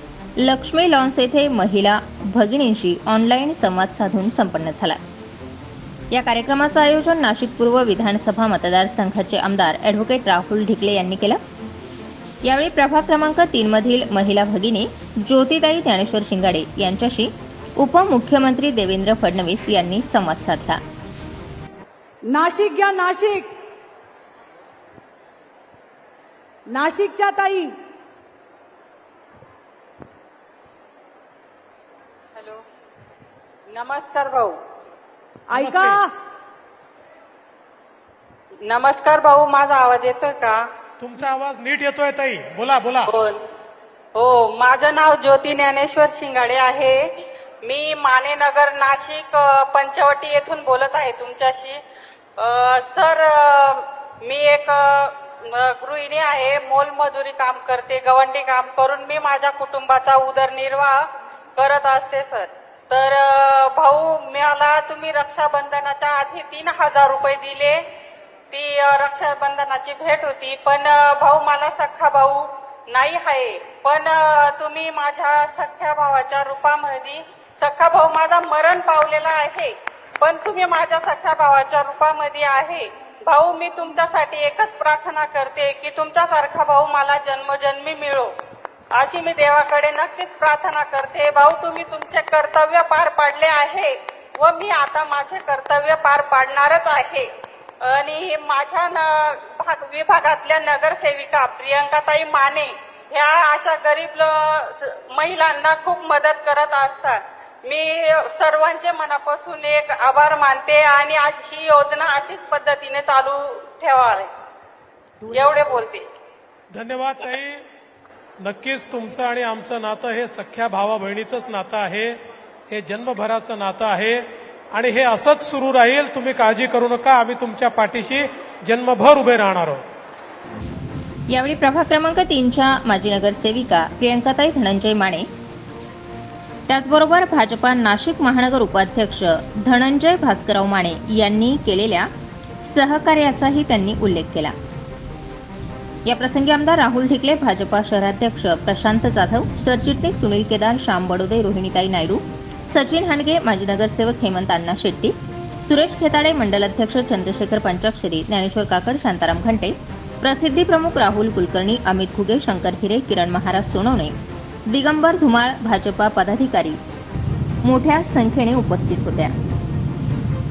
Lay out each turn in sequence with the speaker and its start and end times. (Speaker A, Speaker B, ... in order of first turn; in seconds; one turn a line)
Speaker A: 0.4-5.0
Speaker A: 6.1-11.4
Speaker A: 12.4-20.8
Speaker B: 22.2-23.5
Speaker B: 26.7-27.7
Speaker C: 32.4-32.6
Speaker C: 33.7-34.5
Speaker B: 35.5-36.1
Speaker D: 35.5-36.0
Speaker C: 38.6-40.6
Speaker D: 41.0-43.1
Speaker C: 43.0-43.4
Speaker C: 44.1-51.8
Speaker C: 52.4-67.8
Speaker C: 68.5-88.3
Speaker C: 88.9-97.3
Speaker C: 97.8-114.3
Speaker C: 115.3-116.0
Speaker D: 116.7-117.6
Speaker D: 118.4-122.2
Speaker D: 122.7-129.8
Speaker A: 131.3-135.3
Speaker A: 136.7-142.1
Speaker A: 142.6-144.5
Speaker A: 146.1-164.1
Speaker A: 164.7-166.8
Speaker A: 167.6-169.3